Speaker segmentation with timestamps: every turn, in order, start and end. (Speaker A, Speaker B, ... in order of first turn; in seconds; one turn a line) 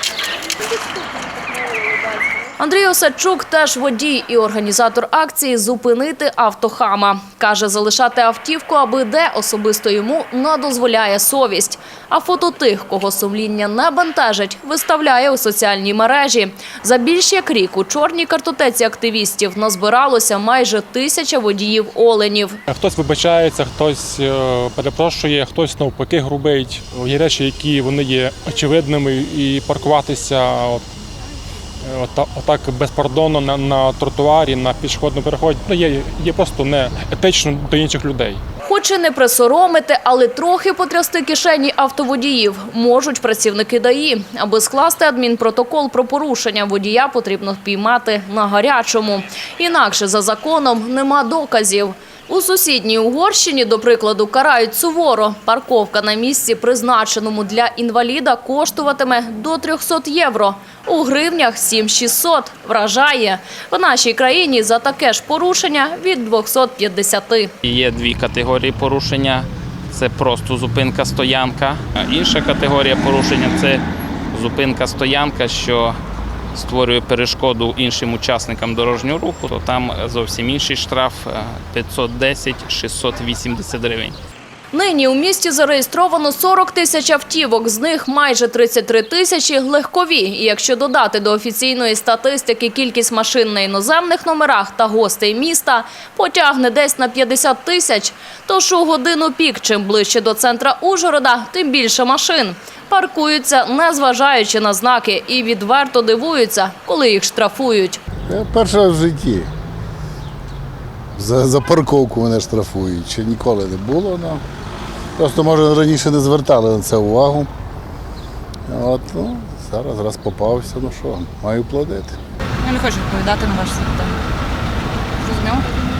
Speaker A: 2.6-22.6
Speaker B: 22.7-30.9
Speaker B: 31.8-38.4
Speaker A: 38.7-67.5
Speaker C: 67.6-76.0
Speaker C: 76.5-84.2
Speaker A: 84.7-108.0
Speaker D: 108.3-109.5
Speaker D: 111.2-114.4
Speaker D: 115.2-117.5
Speaker D: 118.7-122.2
Speaker E: 122.6-124.2
Speaker E: 125.2-125.7